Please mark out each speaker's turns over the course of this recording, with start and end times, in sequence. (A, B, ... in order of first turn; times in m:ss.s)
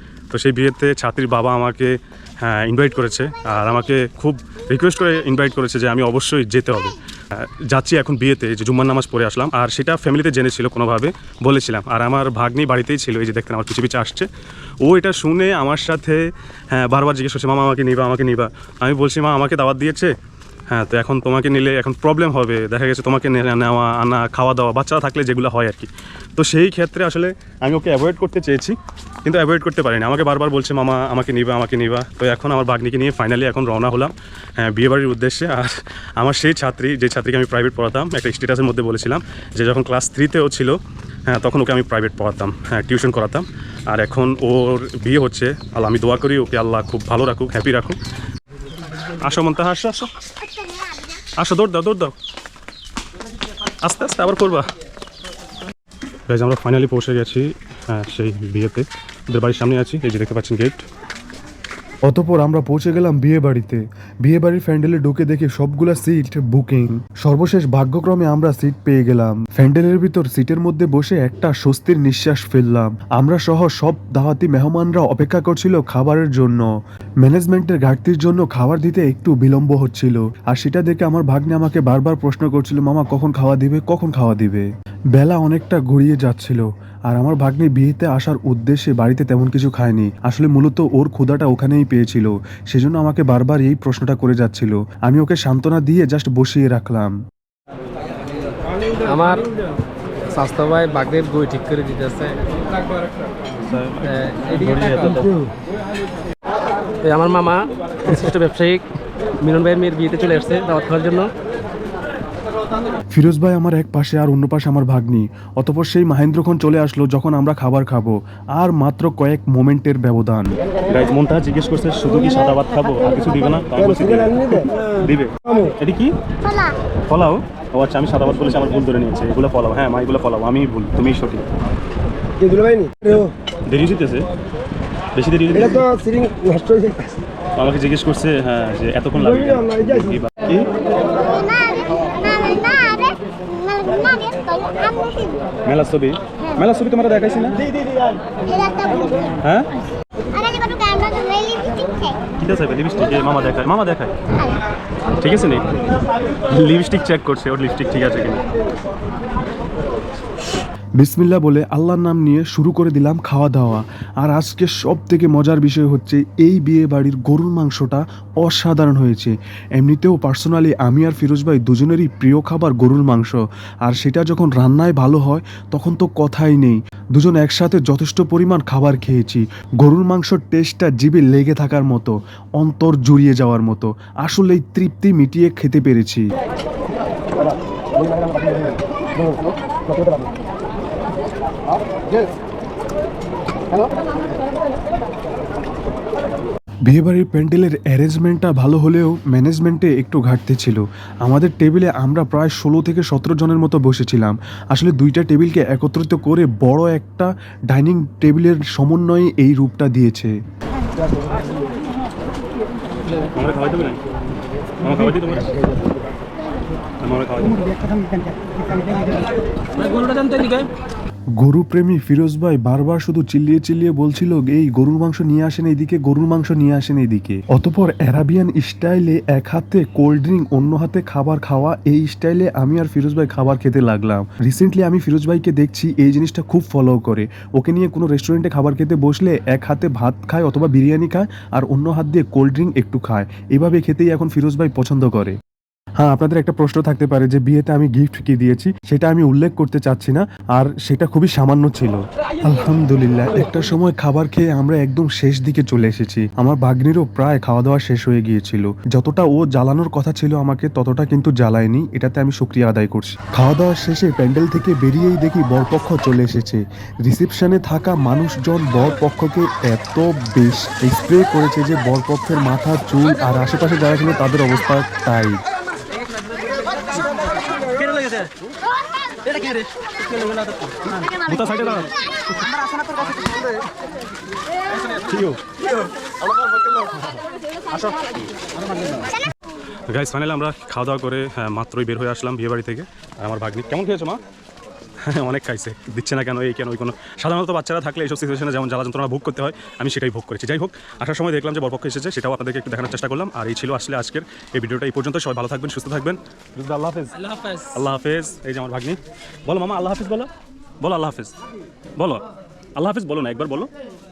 0:00.3-0:14.3 A
0:14.8-0:20.1 A
0:20.7-0:40.8 A
0:41.3-0:48.0 A
0:49.0-0:50.1 A
0:51.4-0:52.1 A
0:53.8-0:54.6 A
0:56.3-1:00.8 A
1:02.0-1:16.7 B
1:17.2-1:37.2 B
1:39.0-1:39.5 C
1:40.3-1:42.4 C
1:43.6-1:45.4 A
1:44.0-1:45.3 C
1:47.0-1:48.8 C
1:49.4-1:51.3 C
1:53.1-2:00.5 B
2:00.9-2:06.1 A
2:06.4-2:06.7 D
2:07.1-2:11.4 A
2:13.0-2:14.3 A
2:15.2-2:16.0 A
2:16.0-2:16.9 D
2:17.6-2:20.7 A
2:21.1-2:25.4 D
2:25.7-2:27.6 A
2:28.5-2:29.3 D
2:29.4-2:29.7 A
2:30.3-2:32.2 D
2:32.4-2:34.2 A
2:35.2-2:35.8 A
2:36.5-2:38.4 A
2:41.0-3:06.2 B
3:16.9-3:30.3 B
3:33.3-3:34.0 A
3:34.8-3:35.6 A
3:37.0-3:37.7 A
3:39.9-3:40.6 C
3:41.4-4:05.4 B
4:06.0-4:35.4 B
4:40.9-4:41.9 A
4:44.9-4:45.4 A
4:47.7-4:48.2 A
4:49.9-4:54.2 A
4:55.0-5:11.4 A
5:12.0-5:12.2 A
5:12.8-5:13.7 A